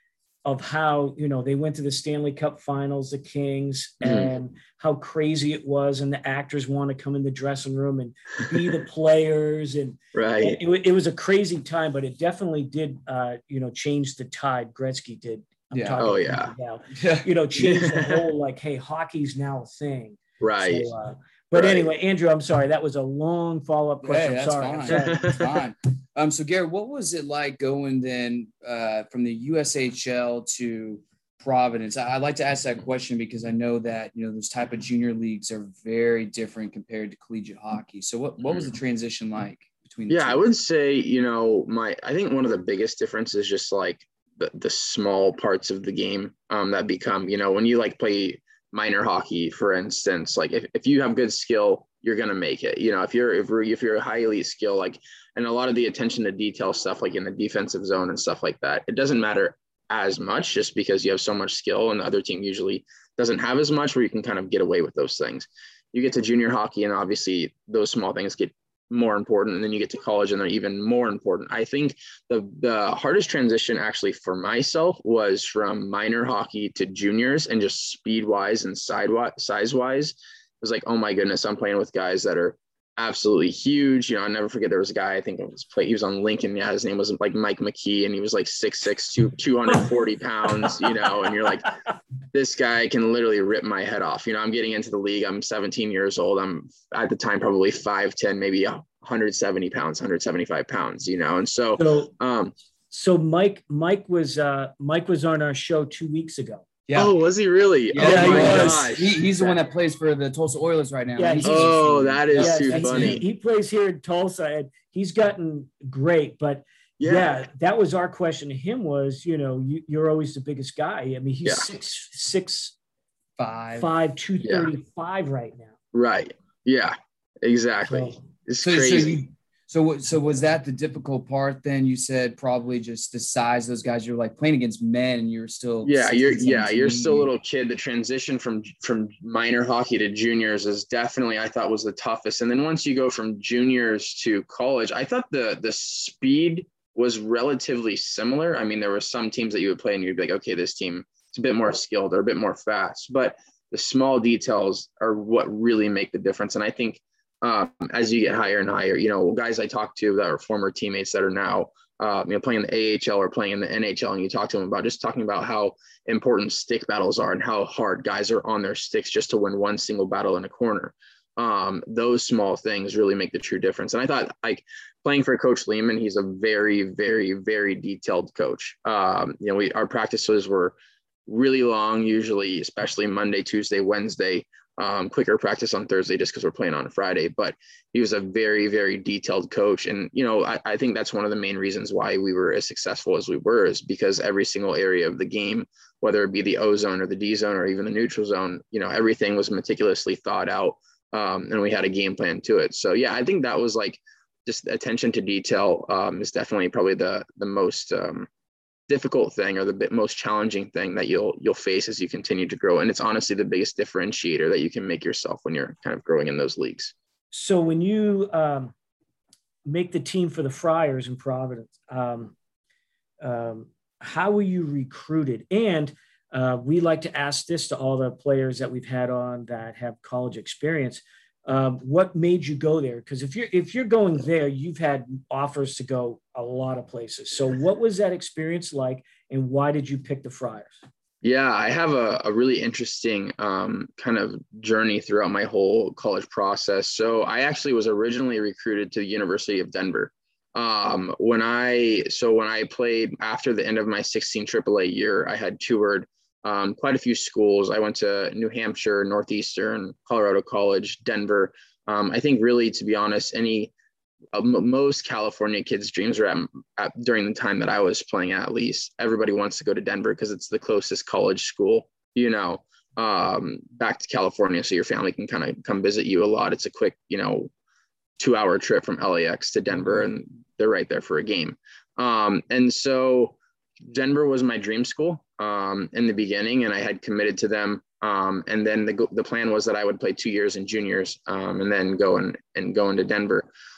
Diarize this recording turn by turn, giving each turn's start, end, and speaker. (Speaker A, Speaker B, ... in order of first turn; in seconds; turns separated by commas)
Speaker A: 0.4-25.4, Speaker B: 4.0-4.3, Speaker B: 10.1-10.6, Speaker C: 15.7-16.0, Speaker B: 16.0-16.5, Speaker C: 16.9-17.3, Speaker B: 17.6-18.3, Speaker B: 20.4-20.9, Speaker B: 21.5-21.9, Speaker C: 24.0-40.4, Speaker B: 25.1-25.4, Speaker B: 38.4-38.7, Speaker B: 40.1-91.7, Speaker B: 92.3-102.5, Speaker A: 101.8-102.1, Speaker A: 102.9-106.7, Speaker C: 106.9-107.1, Speaker B: 106.9-109.5, Speaker C: 107.9-113.2, Speaker A: 108.0-109.1, Speaker A: 111.2-122.7, Speaker B: 111.4-113.2, Speaker B: 117.0-117.3, Speaker C: 123.4-123.9, Speaker A: 123.8-125.7, Speaker B: 124.4-124.7, Speaker B: 125.9-129.2, Speaker A: 127.8-128.2, Speaker C: 128.6-137.3, Speaker B: 135.8-208.3, Speaker B: 208.9-216.9, Speaker A: 217.3-218.7, Speaker A: 219.6-222.3, Speaker A: 223.2-240.8, Speaker B: 241.2-263.7, Speaker B: 264.3-277.5, Speaker B: 278.2-293.5